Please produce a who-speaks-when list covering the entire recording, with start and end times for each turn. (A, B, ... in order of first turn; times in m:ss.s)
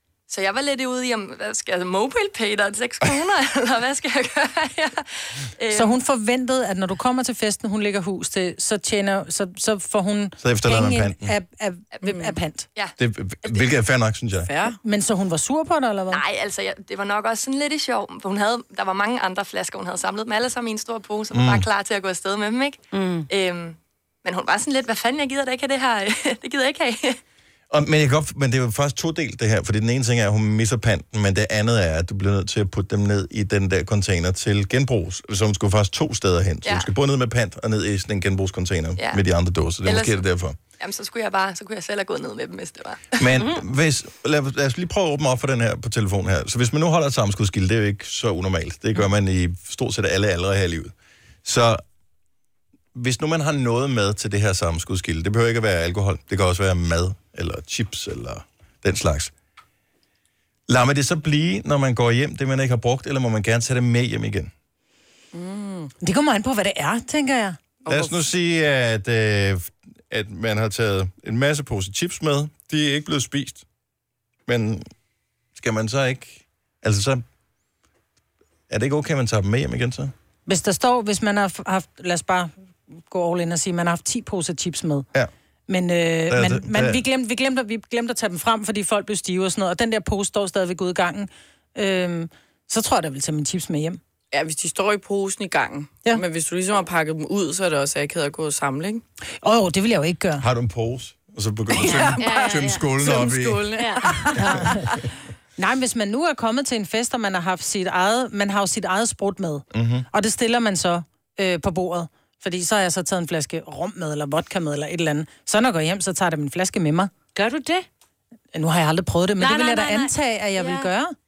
0:00.3-0:06.0 A
0:05.7-0:12.7 B
0:10.4-0:11.3 C
0:12.1-0:12.4 D
0:12.7-0:13.7 A
0:13.0-0:14.5 C
0:14.5-0:14.8 D
0:14.8-0:16.2 B
0:16.1-0:27.2 A
0:21.3-0:21.7 C
0:22.9-0:23.3 E
0:27.7-0:40.6 C
0:36.6-0:36.9 A
0:39.8-0:40.2 A
0:40.8-0:43.2 A
0:43.1-0:50.9 C
0:51.4-0:51.8 C
0:53.0-0:59.3 C
1:00.7-1:04.5 C
1:05.3-1:05.9 D
1:06.0-1:07.6 B
1:07.8-1:08.2 D
1:07.9-1:13.6 C
1:14.5-1:14.8 C
1:15.6-1:17.2 C
1:18.7-1:20.1 C
1:20.5-1:22.5 B
1:23.1-1:25.1 B
1:25.7-1:34.0 B
1:26.3-1:27.0 C
1:34.3-1:39.0 D
1:39.4-1:40.4 B
1:40.4-1:43.7 C
1:41.8-1:44.4 D
1:41.8-1:42.9 E
1:43.8-1:44.4 E
1:44.4-1:44.7 C
1:44.4-1:44.7 B
1:45.6-1:57.1 B
1:49.7-1:50.1 C
1:57.4-1:57.9 E
1:58.5-2:01.1 B
1:59.4-2:00.9 E